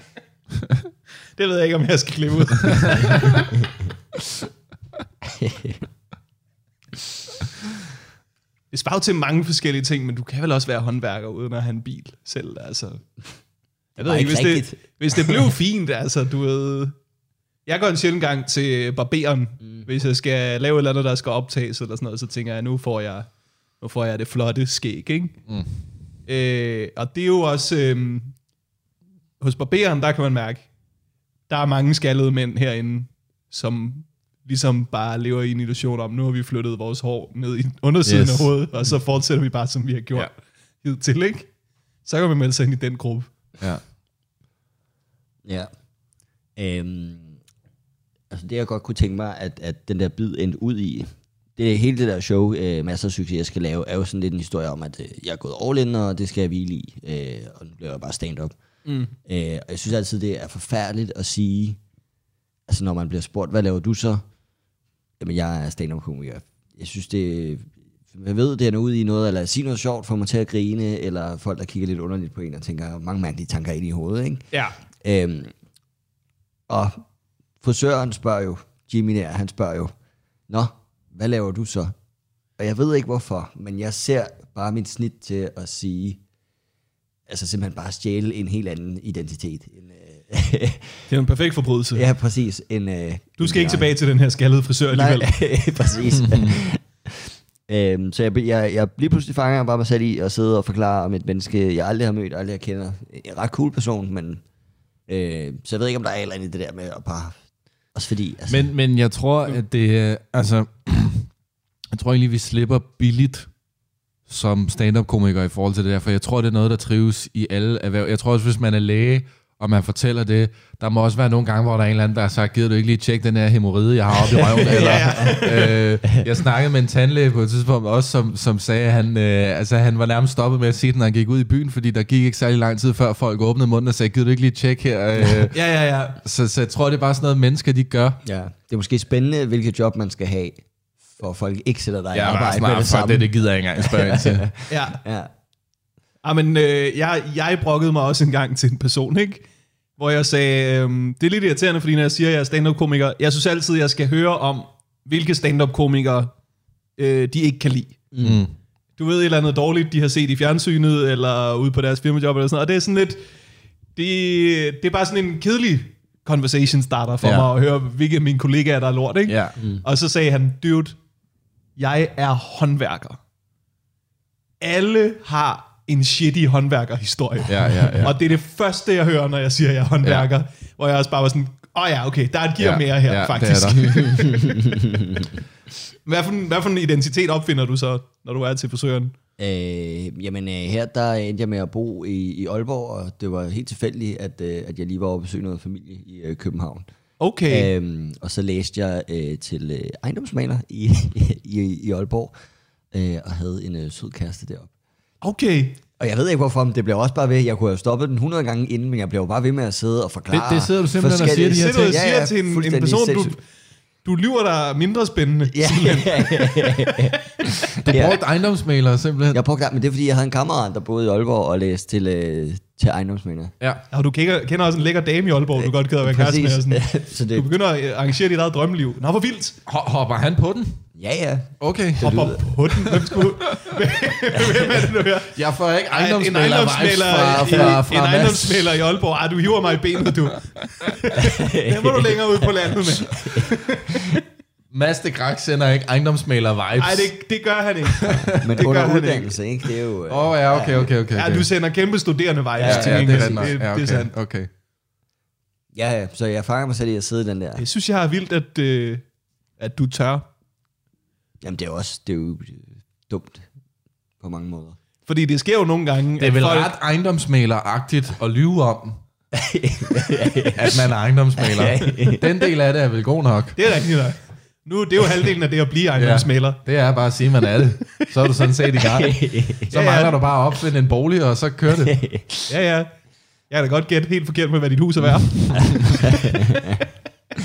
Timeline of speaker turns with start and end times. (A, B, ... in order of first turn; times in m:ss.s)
0:01.4-0:03.4 A
0:03.0-0:03.3 B
0:05.2-0:05.8 C
0:08.7-0:13.0 A
0:14.0-0:15.4 C
0:14.0-0:17.0 A
0:17.6-0:25.4 A
0:26.3-0:28.4 A
0:29.4-0:30.7 A
0:31.5-0:41.5 A
0:38.0-0:38.5 B
0:42.0-0:43.3 A
0:45.4-0:45.7 C
0:46.6-0:47.4 C
0:48.3-0:58.6 C
0:58.8-0:59.1 A
0:59.2-1:01.8 C
1:02.7-1:04.2 C
1:05.2-1:15.5 C
1:16.7-1:17.0 C
1:17.6-1:19.9 C
1:20.5-1:22.0 C
1:22.6-1:26.2 C
1:27.3-1:31.1 C
1:31.1-1:32.0 A
1:31.9-1:33.9 C
1:33.4-1:35.3 A
1:34.9-1:44.4 C
1:36.1-1:36.6 B
1:45.1-1:47.4 C
1:47.9-1:48.7 C
1:48.5-1:51.3 B
1:51.9-1:53.5 B
1:54.3-2:15.7 B
2:04.3-2:05.4 C
2:04.6-2:05.8 A
2:15.5-2:16.2 A
2:16.2-2:18.2 B
2:18.2-2:25.3 C
2:22.1-2:24.5 B
2:24.7-2:25.0 A
2:26.2-2:29.5 A
2:30.0-2:36.3 A
2:37.0-2:38.0 A
2:38.1-2:38.4 C
2:38.2-2:38.5 B
2:39.0-2:43.2 A
2:44.0-2:51.0 A
2:47.2-2:47.5 B
2:49.3-2:49.6 B
2:51.8-2:53.2 A
2:54.6-3:04.4 A
2:57.5-2:58.2 B
3:02.6-3:04.5 B
3:04.2-3:05.3 C
3:06.0-3:09.1 A
3:09.4-3:16.9 C
3:17.2-3:17.7 A
3:17.5-3:22.3 C
3:22.9-3:24.7 C
3:25.2-3:25.8 A
3:26.0-3:33.4 C
3:30.3-3:32.0 B
3:31.5-3:33.4 A
3:34.0-3:37.0 A
3:35.5-3:38.2 C
3:37.8-3:39.4 B
3:39.3-3:43.5 C
3:43.9-3:49.5 A
3:45.6-3:47.5 C
3:49.6-3:50.8 B
3:50.9-3:52.4 C
3:51.6-3:53.3 B
3:52.0-3:55.4 A
3:55.3-3:58.8 B
3:55.9-4:04.2 A
4:01.2-4:02.5 C
4:03.0-4:03.4 C
4:04.7-4:07.1 B
4:06.8-4:09.4 A
4:07.9-4:08.5 B
4:08.3-4:10.9 C
4:10.1-4:11.5 B
4:11.1-4:14.1 A
4:12.6-4:13.5 C
4:12.6-4:14.5 B
4:15.7-4:17.6 C
4:17.6-4:19.0 A
4:19.6-4:20.2 A
4:21.4-4:23.4 C
4:24.2-4:24.8 C
4:25.1-4:26.7 A
4:26.2-4:29.0 B
4:29.3-4:30.8 C
4:30.5-4:33.6 B
4:31.4-4:32.5 C
4:33.5-4:36.6 A
4:36.0-4:42.0 B
4:38.8-4:39.6 C
4:39.7-4:40.2 A
4:41.8-4:42.3 C
4:42.5-4:42.9 A
4:43.5-4:46.8 A
4:45.4-4:46.0 B
4:45.5-4:46.7 C